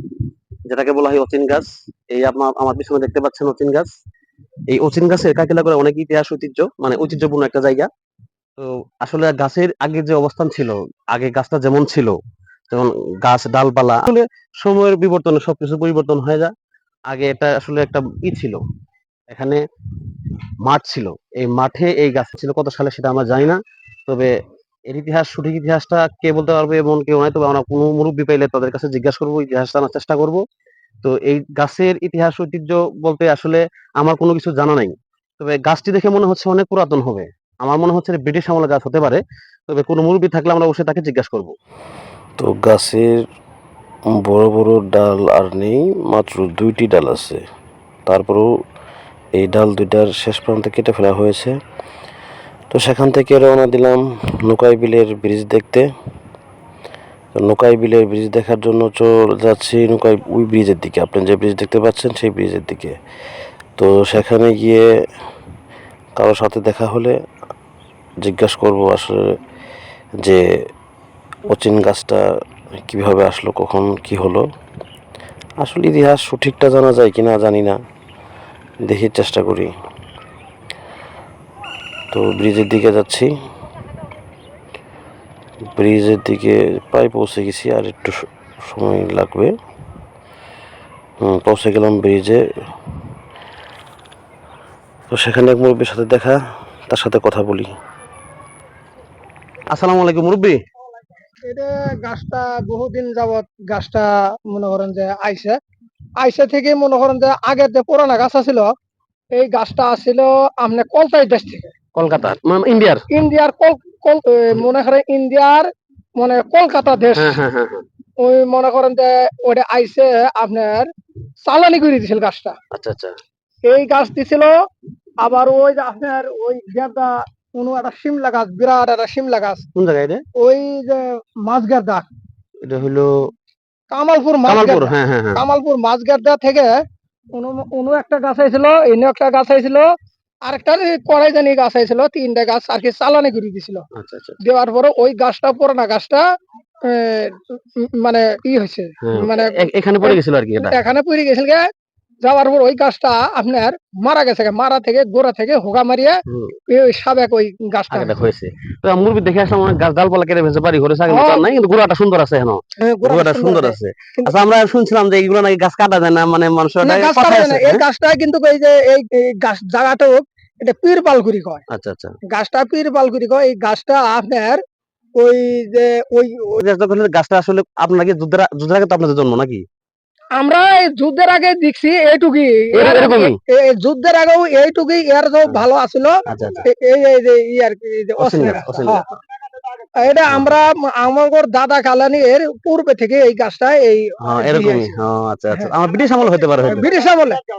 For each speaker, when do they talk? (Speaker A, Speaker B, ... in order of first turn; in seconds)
Speaker A: 0.7-3.9, 4.7-7.9, 8.6-12.2, 12.7-16.5, 17.1-18.6, 19.3-19.6, 20.6-24.3, 24.9-30.4, 31.0-41.5, 99.7-100.6, 112.0-113.0, 117.2-117.8, 122.7-123.2, 129.8-130.2, 132.6-133.2, 134.5-135.4, 143.9-144.4, 149.0-150.8, 156.3-156.5, 157.9-167.8, 171.7-172.2, 176.6-179.6, 182.7-183.4, 186.3-186.7, 188.2-189.0, 190.3-190.6, 194.2-196.9
Speaker B: 42.4-43.1, 44.2-47.4, 48.0-48.5, 49.4-51.5, 52.7-55.9, 57.3-63.0, 63.8-64.9, 66.2-67.2, 68.2-69.3, 71.5-72.2, 72.9-74.5, 75.6-77.8, 78.8-79.7, 82.1-83.3, 85.8-89.5, 91.2-92.4, 95.1-96.4, 96.9-97.7
Speaker C: 101.4-105.6, 106.2-108.7, 109.3-111.7, 113.1-117.4, 118.2-120.9, 121.5-122.6, 123.6-124.5, 125.2-129.7, 130.4-132.1, 133.9-136.7, 137.3-139.9, 140.4-143.8, 144.4-146.2, 146.9-151.7, 152.2-158.2, 161.1-161.4, 162.9-164.4, 166.8-171.6, 172.3-174.6, 175.2-176.6, 180.4-189.1, 190.0-195.0, 196.6-197.4